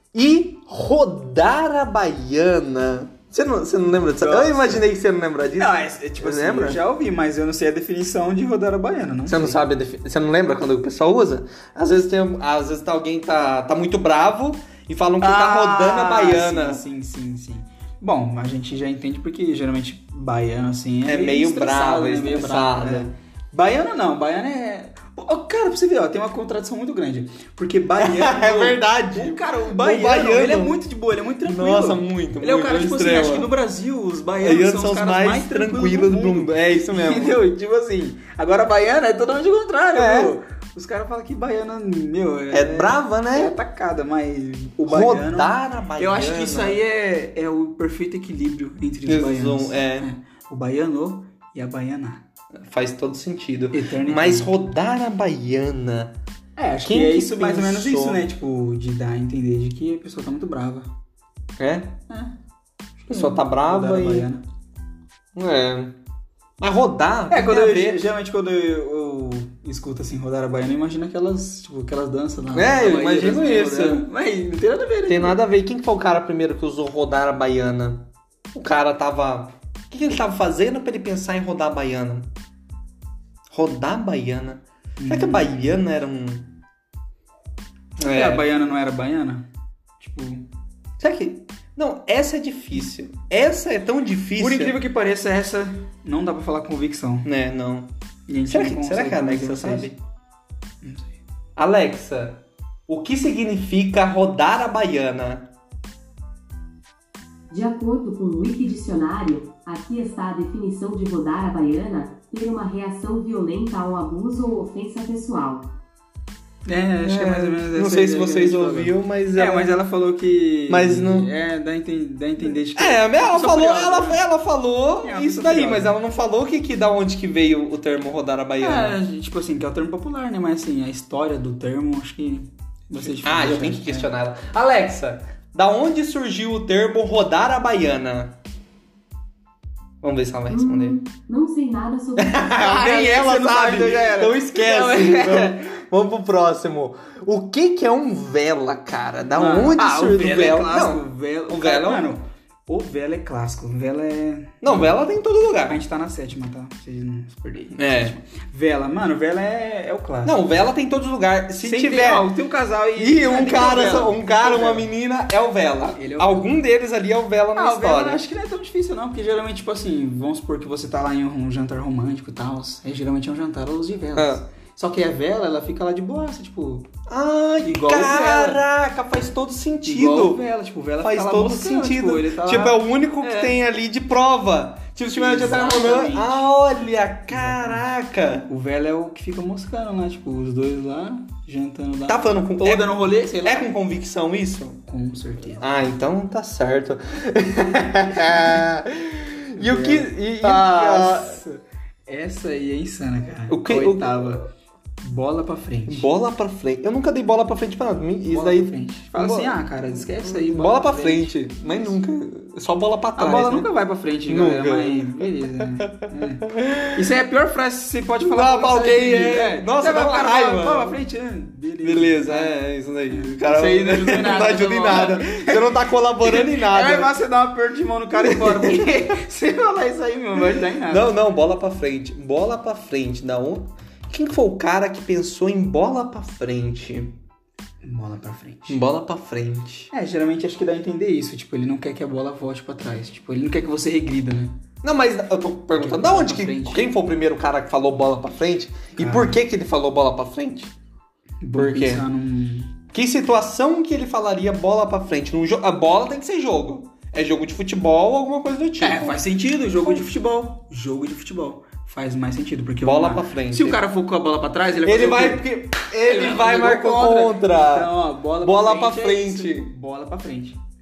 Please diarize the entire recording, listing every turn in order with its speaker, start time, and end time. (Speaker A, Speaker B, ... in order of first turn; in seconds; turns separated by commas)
Speaker A: 0.1-6.8, Speaker B: 4.0-4.8, Speaker B: 5.6-9.6, Speaker A: 9.3-16.8, Speaker B: 15.2-52.2, Speaker A: 21.1-23.1, Speaker A: 28.0-30.8, Speaker A: 31.4-33.5, Speaker A: 34.4-37.4, Speaker A: 39.9-40.4, Speaker A: 42.5-43.5, Speaker A: 44.9-46.8, Speaker A: 49.0-50.1, Speaker A: 52.6-56.1, Speaker B: 53.7-54.5, Speaker B: 56.6-60.9, Speaker A: 56.8-58.2, Speaker A: 61.6-61.9, Speaker B: 62.1-62.3, Speaker B: 63.0-64.4, Speaker A: 63.1-64.3, Speaker A: 65.3-65.9, Speaker A: 66.6-68.0, Speaker B: 67.3-75.4, Speaker A: 72.5-74.0, Speaker A: 75.1-82.3, Speaker A: 83.5-86.5, Speaker B: 85.0-85.7, Speaker B: 88.0-89.5, Speaker A: 88.0-88.5, Speaker B: 90.0-90.4, Speaker A: 91.0-94.8, Speaker B: 94.4-97.3, Speaker A: 97.2-97.9, Speaker B: 98.3-99.9, Speaker A: 98.5-100.0, Speaker B: 100.8-101.2, Speaker A: 101.5-105.5, Speaker C: 107.5-115.7, Speaker B: 116.7-124.2, Speaker A: 117.0-119.7, Speaker A: 120.7-121.3, Speaker A: 122.8-129.0, Speaker B: 125.0-126.0, Speaker B: 128.6-134.1, Speaker A: 133.0-138.3, Speaker A: 140.0-141.0, Speaker C: 140.5-142.4, Speaker A: 142.2-152.1, Speaker B: 142.5-145.6, Speaker B: 149.3-154.9, Speaker A: 154.6-155.8, Speaker B: 155.7-160.4, Speaker A: 157.8-158.2, Speaker A: 160.2-162.3, Speaker B: 161.6-164.8, Speaker A: 163.0-168.2, Speaker B: 165.9-166.5, Speaker B: 167.6-176.8, Speaker A: 174.2-174.4, Speaker A: 177.1-180.4, Speaker B: 177.6-178.6, Speaker B: 179.8-183.5, Speaker A: 181.0-188.4, Speaker B: 185.1-186.5, Speaker B: 187.3-187.8, Speaker B: 188.4-193.7, Speaker A: 192.1-194.8, Speaker B: 194.9-195.7, Speaker A: 195.6-201.4, Speaker B: 199.6-204.4, Speaker A: 203.5-204.4, Speaker B: 205.0-206.1, Speaker A: 205.9-209.6, Speaker B: 208.3-211.9, Speaker A: 210.2-213.7, Speaker B: 213.2-222.5, Speaker A: 214.3-215.1, Speaker A: 215.8-217.1, Speaker A: 218.2-221.0, Speaker A: 221.8-227.1, Speaker B: 223.1-231.1, Speaker A: 228.2-229.1, Speaker A: 230.8-237.2, Speaker B: 237.8-238.8, Speaker A: 238.7-239.9, Speaker B: 239.9-244.6, Speaker A: 244.8-250.7, Speaker B: 245.7-246.8, Speaker B: 249.0-249.4, Speaker B: 251.4-252.7, Speaker A: 251.6-252.0, Speaker A: 252.9-259.2, Speaker B: 258.8-265.5, Speaker A: 259.8-260.0, Speaker A: 262.8-263.8, Speaker A: 264.8-267.9, Speaker B: 266.0-270.6, Speaker A: 268.4-269.7